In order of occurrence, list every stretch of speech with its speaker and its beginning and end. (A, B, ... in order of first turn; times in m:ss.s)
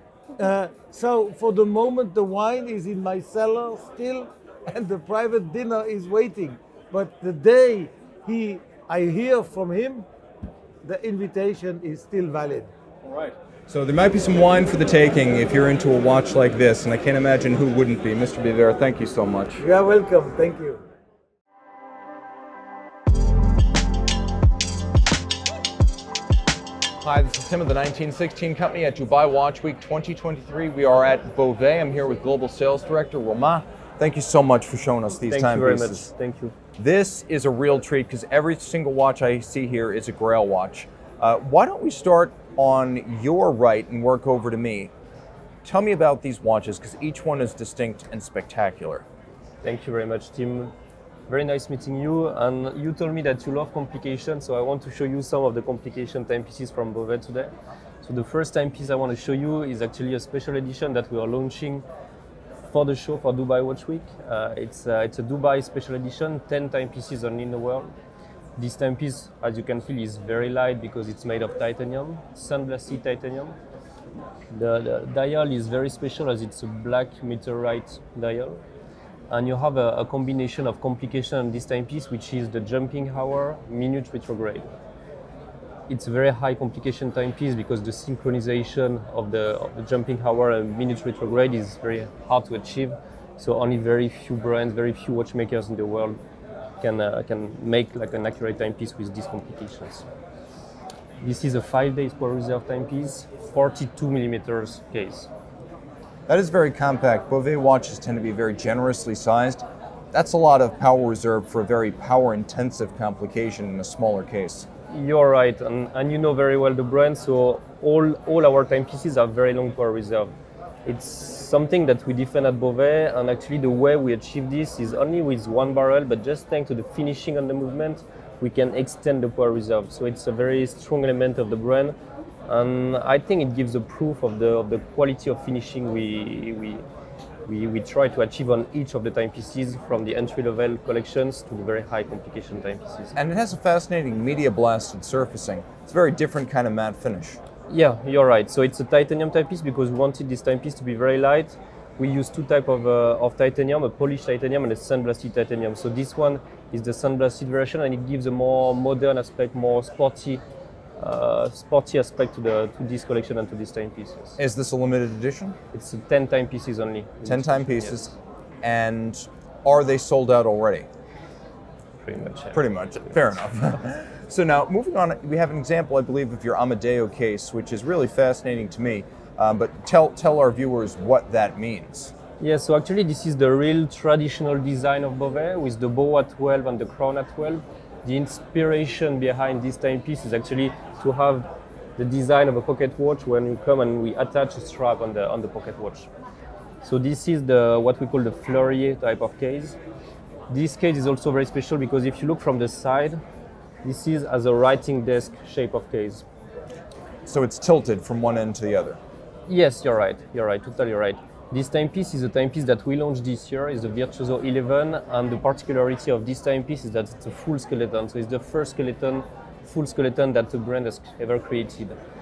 0:00.4-0:10.0 A
0:10.8-0:12.7 A
0:13.1-0:19.6 B
0:19.6-0:20.8 A
0:27.0-0:36.1 B
0:35.3-0:36.5 C
0:36.8-0:44.9 B
0:45.6-0:49.0 B
0:49.6-0:50.7 C
0:51.3-1:01.8 C
1:02.7-1:07.9 C
1:08.6-1:13.6 C
1:14.5-1:18.6 C
1:19.3-1:24.7 C
1:25.9-1:36.2 C
1:36.8-1:40.0 C
1:41.2-1:45.3 C
1:46.3-1:54.7 B
1:54.9-2:00.3 C
2:00.9-2:12.0 C
2:12.5-2:16.8 C
2:17.5-2:23.2 C
2:23.2-2:27.4 B
2:27.7-2:40.4 C
2:41.0-2:44.4 C
2:44.4-2:45.6 B
2:45.7-2:48.1 C
2:47.2-2:50.9 B
2:52.1-2:52.6 C
2:52.5-3:02.1 B
3:02.4-3:16.1 C
3:16.8-3:19.8 C
3:20.5-3:23.2 C
3:23.8-3:26.2 C
3:27.3-3:29.0 B
3:29.5-3:42.0 C